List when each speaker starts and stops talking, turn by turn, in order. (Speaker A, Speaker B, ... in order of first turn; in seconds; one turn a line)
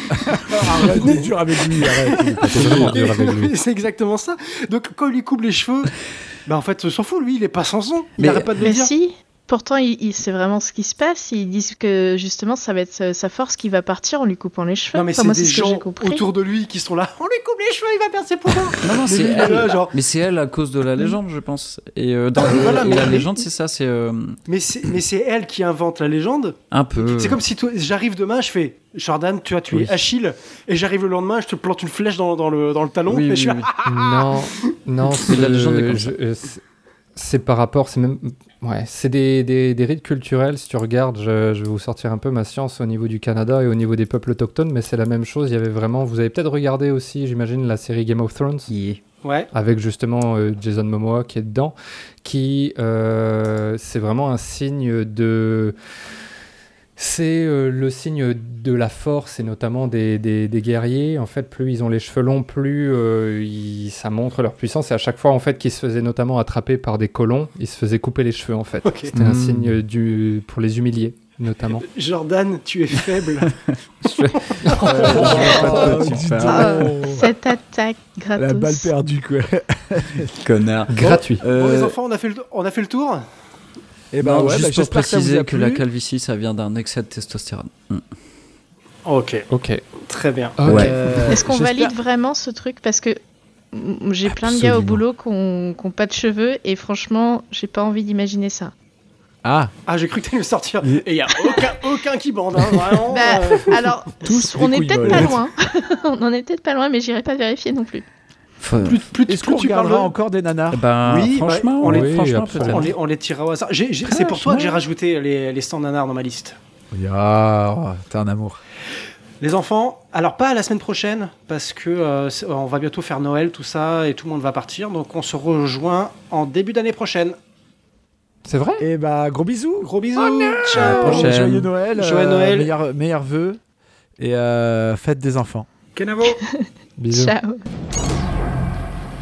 Speaker A: 0.1-3.0
Speaker B: 0.7-8.9
Speaker C: 2.5-3.5
Speaker D: 8.2-8.5
Speaker E: 8.6-16.2
Speaker B: 14.9-20.0
Speaker D: 18.8-24.4
Speaker B: 22.4-23.4
Speaker B: 24.5-34.4
Speaker D: 26.7-27.4
Speaker D: 33.1-33.7
Speaker C: 33.8-36.6
Speaker D: 35.2-36.1
Speaker C: 37.1-48.7
Speaker D: 48.7-49.0
Speaker B: 49.2-49.5
Speaker C: 49.5-55.7
Speaker C: 57.0-71.8
Speaker B: 68.8-69.1
Speaker D: 69.1-69.8
Speaker B: 71.8-73.6
Speaker D: 73.4-76.9
Speaker B: 74.4-75.7
Speaker C: 74.7-75.9
Speaker A: 74.8-77.3
Speaker E: 76.5-78.9
Speaker A: 78.4-80.4
Speaker D: 80.3-81.9
Speaker C: 80.9-81.4
Speaker B: 81.5-83.2
Speaker A: 84.1-85.8
Speaker D: 84.2-88.0
Speaker B: 89.0-89.5
Speaker C: 89.5-89.8
Speaker B: 90.0-90.6
Speaker C: 90.6-91.0
Speaker D: 90.7-91.0
Speaker A: 90.7-92.0
Speaker E: 91.3-93.2
Speaker E: 93.7-98.7
Speaker A: 94.3-95.0
Speaker A: 99.4-99.7
Speaker B: 99.9-103.8
Speaker E: 103.1-108.0
Speaker A: 104.2-105.4
Speaker D: 108.6-109.0
Speaker B: 108.8-110.1
Speaker A: 109.3-110.8
Speaker D: 110.7-112.9
Speaker B: 111.0-116.5
Speaker C: 111.8-112.9
Speaker D: 114.0-114.8
Speaker A: 116.9-118.6
Speaker B: 119.4-127.3
Speaker C: 128.4-128.8
Speaker A: 128.8-133.6
Speaker B: 129.8-131.4
Speaker C: 130.5-130.8
Speaker D: 130.8-131.7
Speaker B: 131.9-132.7
Speaker A: 134.2-135.7
Speaker B: 135.9-136.4
Speaker E: 136.4-137.7
Speaker C: 137.0-137.3